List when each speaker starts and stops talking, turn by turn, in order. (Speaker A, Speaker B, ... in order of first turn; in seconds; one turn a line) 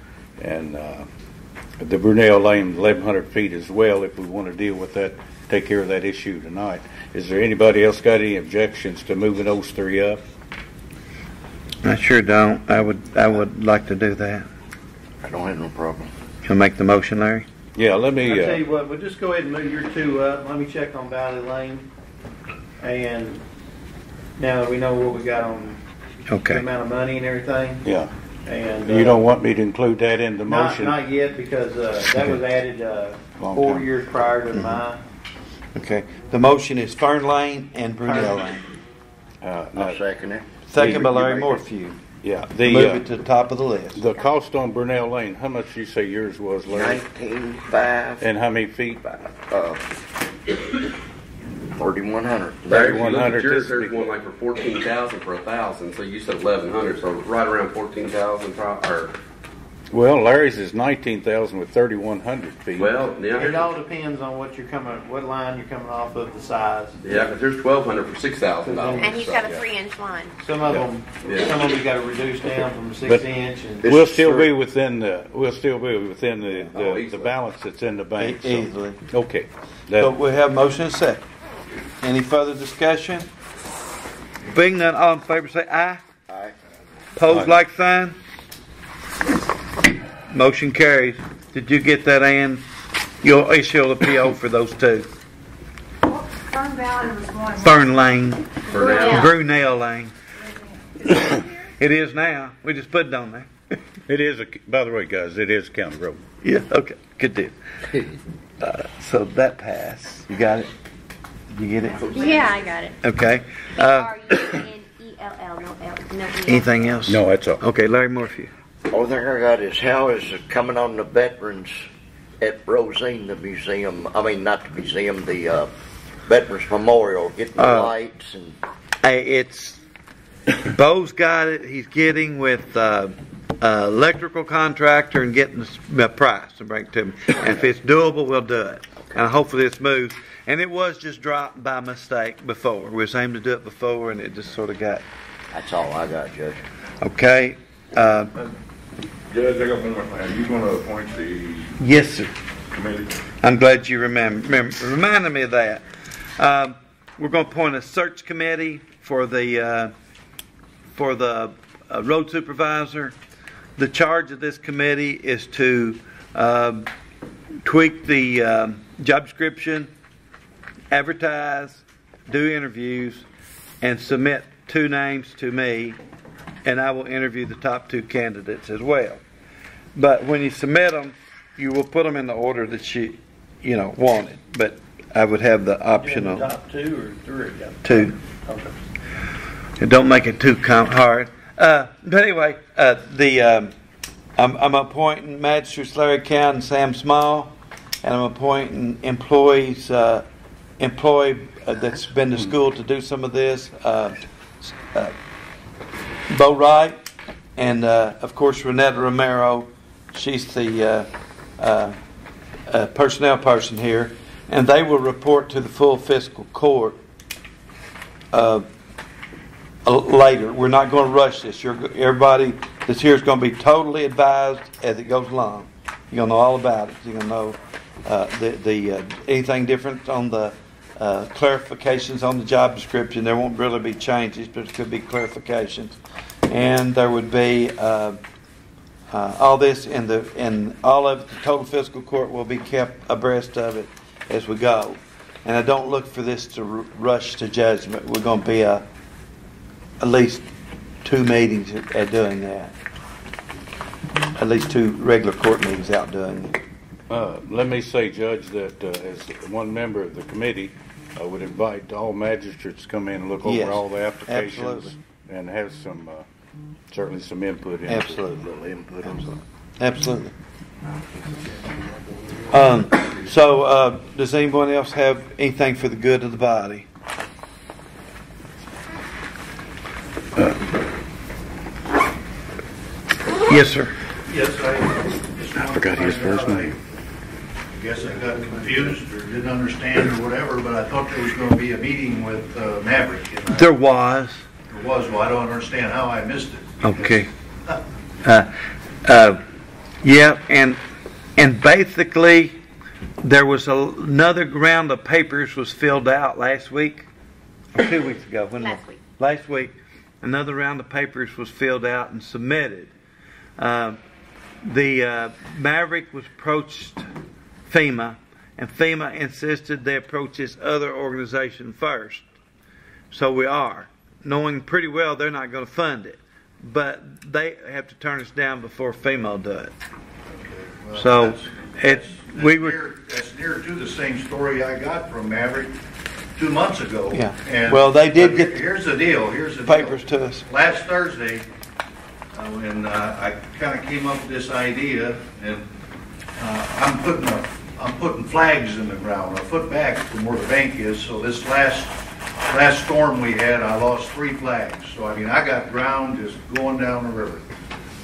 Speaker A: 0.4-1.1
Speaker A: 1.8-10.2
Speaker B: 11.8-14.5
Speaker C: 15.2-16.1
Speaker B: 16.4-17.4
Speaker A: 17.7-18.6
Speaker D: 18.2-21.9
Speaker D: 22.8-23.4
Speaker D: 24.4-25.8
Speaker B: 26.3-26.6
Speaker D: 26.4-27.8
Speaker A: 27.8-28.1
Speaker D: 28.4-29.2
Speaker A: 28.8-31.0
Speaker D: 30.4-35.0
Speaker A: 32.1-32.4
Speaker A: 33.4-33.9
Speaker B: 34.5-34.8
Speaker B: 35.7-38.6
Speaker D: 38.0-38.5
Speaker A: 39.4-40.0
Speaker C: 39.7-41.6
Speaker B: 40.7-42.0
Speaker A: 40.8-41.3
Speaker A: 42.2-43.0
Speaker B: 42.6-44.0
Speaker A: 44.0-47.0
Speaker C: 46.7-48.2
Speaker A: 48.2-49.0
Speaker C: 49.0-49.8
Speaker C: 51.7-53.0
Speaker E: 52.7-59.1
Speaker A: 52.7-54.1
Speaker A: 59.9-63.0
Speaker E: 62.8-63.7
Speaker D: 63.3-67.0
Speaker E: 67.0-69.5
Speaker D: 68.7-69.5
Speaker F: 68.9-70.3
Speaker D: 70.4-74.0
Speaker E: 71.2-71.7
Speaker C: 73.8-74.5
Speaker A: 73.8-80.2
Speaker E: 76.7-77.2
Speaker C: 76.8-77.1
Speaker B: 78.2-79.0
Speaker B: 80.0-81.2
Speaker B: 82.0-83.3
Speaker B: 84.5-86.0
Speaker C: 86.3-86.5
Speaker B: 87.2-88.2
Speaker A: 87.3-87.5
Speaker B: 90.3-92.6
Speaker B: 93.2-95.1
Speaker B: 97.5-100.1
Speaker E: 98.7-99.3
Speaker F: 98.7-99.3
Speaker B: 101.8-103.5
Speaker A: 104.1-106.2
Speaker B: 106.4-107.5
Speaker B: 108.6-110.7
Speaker B: 111.5-112.1
Speaker E: 112.0-112.6
Speaker F: 112.1-113.0
Speaker B: 113.0-114.5
Speaker F: 113.8-117.0
Speaker B: 116.5-118.5
Speaker A: 117.0-117.6
Speaker C: 118.9-121.8
Speaker C: 122.4-125.7
Speaker C: 126.3-128.6
Speaker B: 127.6-127.9
Speaker B: 129.0-129.8
Speaker B: 130.7-145.0
Speaker C: 145.5-146.6
Speaker B: 147.0-148.3
Speaker G: 149.3-151.8
Speaker B: 151.8-152.3
Speaker G: 152.7-153.1
Speaker B: 153.4-155.8
Speaker B: 156.4-159.9
Speaker B: 160.9-163.1
Speaker B: 163.8-166.9
Speaker B: 167.6-169.9
Speaker B: 170.9-173.2
Speaker B: 173.8-176.0
Speaker B: 176.6-179.2
Speaker B: 179.9-186.5
Speaker D: 186.0-188.8
Speaker B: 187.8-188.2
Speaker B: 189.8-193.7
Speaker B: 194.4-200.2
Speaker B: 200.8-205.1
Speaker B: 206.3-207.0
Speaker B: 207.6-211.1
Speaker B: 211.6-211.9
Speaker B: 212.7-217.0
Speaker B: 218.3-218.7
Speaker B: 219.8-235.9
Speaker B: 236.5-238.2
Speaker B: 239.1-248.8
Speaker B: 250.0-250.4
Speaker B: 251.0-252.7
Speaker B: 254.4-256.6
Speaker A: 257.1-266.2
Speaker B: 263.4-264.9
Speaker A: 266.9-268.2
Speaker B: 267.9-268.5
Speaker C: 268.3-269.3
Speaker B: 269.0-270.3
Speaker B: 272.5-276.9
Speaker B: 283.5-283.9
Speaker H: 284.2-286.8
Speaker A: 285.6-286.7
Speaker H: 287.7-293.7
Speaker B: 293.5-294.4
Speaker H: 294.7-297.8
Speaker B: 296.8-297.3
Speaker B: 298.2-298.5
Speaker B: 299.0-299.4
Speaker B: 300.0-300.8
Speaker B: 301.4-302.6
Speaker B: 303.2-307.1
Speaker B: 307.7-312.9
Speaker F: 308.6-309.0
Speaker B: 313.6-314.0
Speaker B: 314.6-317.1
Speaker B: 317.7-322.2
Speaker B: 323.1-329.7
Speaker H: 330.4-335.7
Speaker B: 330.9-332.8
Speaker H: 336.4-341.4
Speaker B: 337.1-338.6
Speaker B: 339.6-340.4
Speaker H: 342.3-345.7
Speaker H: 346.4-351.9
Speaker H: 352.5-357.4